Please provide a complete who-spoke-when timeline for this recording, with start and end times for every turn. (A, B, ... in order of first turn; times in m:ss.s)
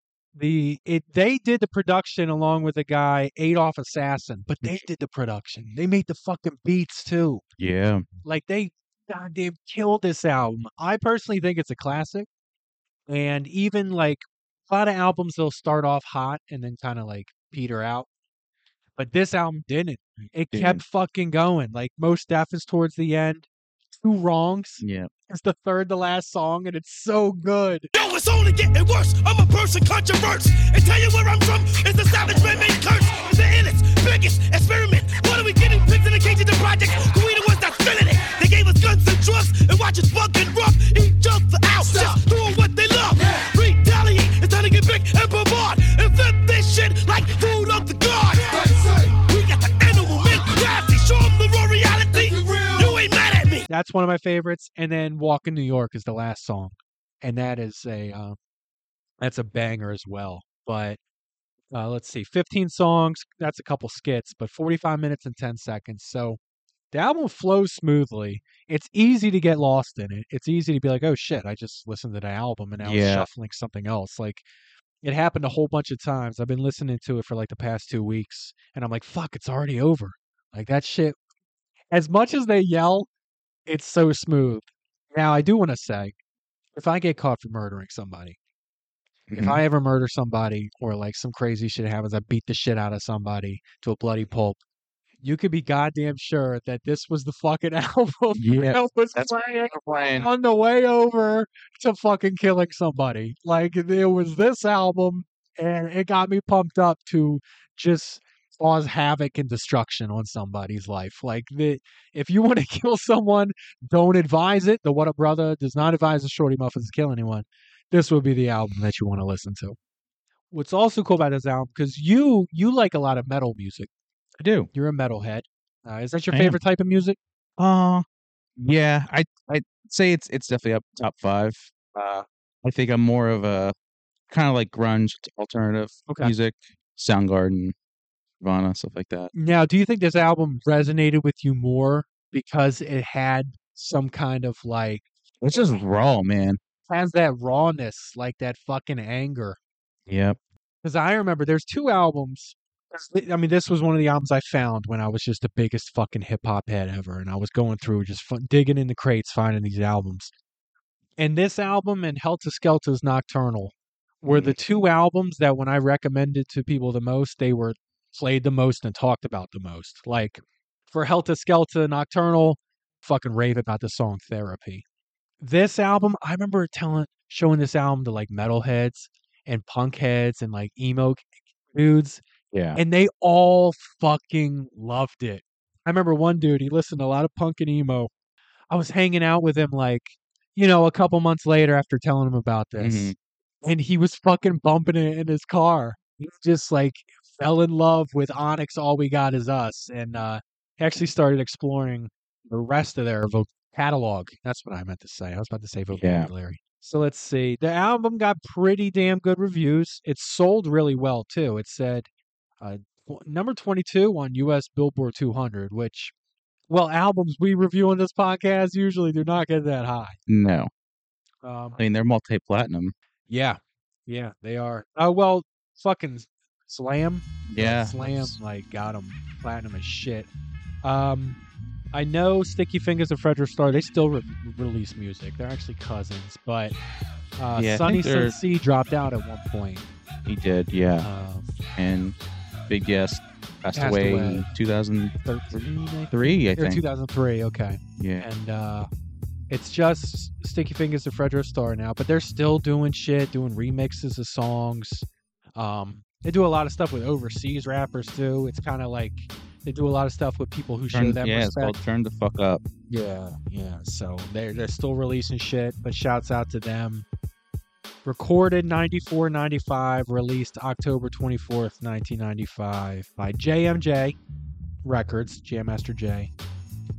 0:00.4-0:07.4 A
0:07.6-0:08.0 B
0:08.2-0:12.3 A
0:13.1-0:18.1 A
0:19.0-0:23.5 A
0:20.2-0:20.8 B
0:24.0-0:27.9 A
0:24.8-0:25.1 B
0:27.9-0:53.7 C
0:53.7-0:58.4 A
0:59.2-1:01.0 A
1:01.7-1:06.4 A
1:06.9-1:14.4 A
1:12.8-1:13.3 B
1:15.0-1:21.2 A
1:21.9-1:23.1 A
1:23.7-1:26.1 A
1:26.8-1:28.4 A
1:29.3-1:29.6 B
1:29.3-1:34.6 A
1:35.2-1:59.8 A
1:38.4-1:40.3 B
2:00.5-2:03.9 A
2:04.4-2:04.7 B
2:04.7-2:07.2 A
2:06.3-2:06.6 B
2:07.6-2:08.0 B
2:08.6-2:13.7 B
2:14.3-2:17.7 B
2:16.1-2:16.3 A
2:18.4-2:19.3 B
2:19.3-2:25.0 A
2:25.4-2:26.6 B
2:26.9-2:29.6 A
2:30.1-2:30.4 B
2:30.8-2:40.3 A
2:41.2-2:54.8 A
2:44.3-2:44.6 B
2:55.4-3:02.2 A
3:02.5-3:02.8 B
3:02.8-3:08.1 A
3:08.7-3:32.1 A
3:12.8-3:13.2 B
3:25.9-3:26.3 B
3:32.6-3:36.1 A
3:36.7-3:40.2 A
3:40.3-3:40.7 B
3:41.4-3:41.8 A
3:41.8-3:42.9 B
3:43.3-3:50.3 A
3:47.5-3:48.4 B
3:50.8-3:51.4 A
3:51.9-3:56.8 A
3:57.4-3:59.9 A
3:57.5-3:58.4 B
4:00.3-4:01.1 B
4:01.0-4:01.5 A
4:01.8-4:02.2 B
4:02.7-4:05.6 B
4:03.7-4:04.5 A
4:05.2-4:08.9 A
4:06.1-4:06.8 B
4:08.0-4:08.3 B
4:09.5-4:21.8 A
4:20.9-4:22.6 B
4:22.9-4:27.1 A
4:28.0-4:34.2 A
4:34.8-4:36.3 A